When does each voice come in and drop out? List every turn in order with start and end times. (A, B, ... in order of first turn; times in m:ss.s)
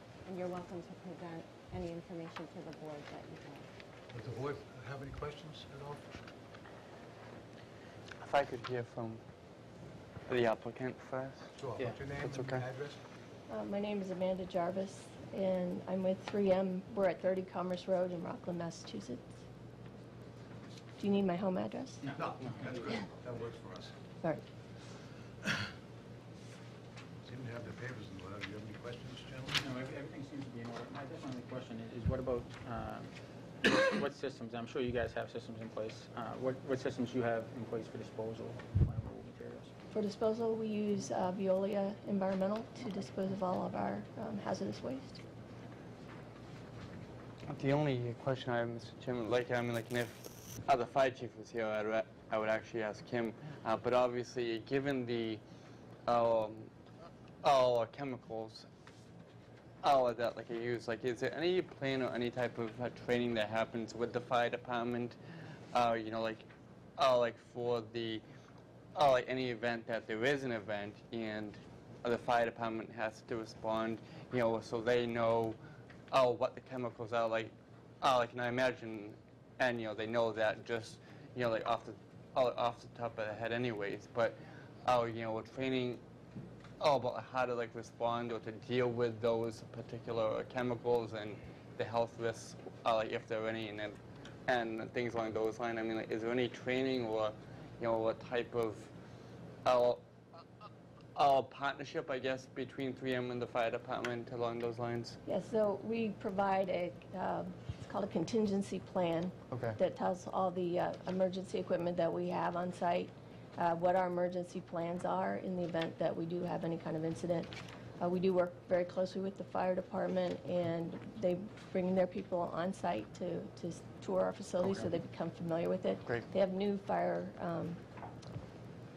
0:00.2-0:03.7 A
0:04.1-0:06.1 B
0:08.2-0:09.2 C
0:10.3-0:11.6 C
0:11.6-0:13.0 B
0:12.2-0:12.6 C
0:13.5-0:19.2 D
0:21.0-0:22.0 D
0:22.0-0:23.0 E
0:22.1-0:24.0 B
0:27.2-0:29.6 B
0:29.6-0:39.7 E
0:39.9-0:45.2 D
0:47.5-0:55.4 C
0:56.1-0:56.7 C
0:57.4-0:58.7 C
0:59.8-1:05.2 C
1:05.7-1:08.2 C
1:09.0-1:15.6 C
1:16.1-1:26.0 C
1:26.8-1:38.9 C
1:39.6-1:40.0 C
1:41.2-1:45.2 C
1:45.3-2:07.8 D
1:49.5-1:49.8 C
2:04.6-2:04.9 E
2:06.0-2:06.3 C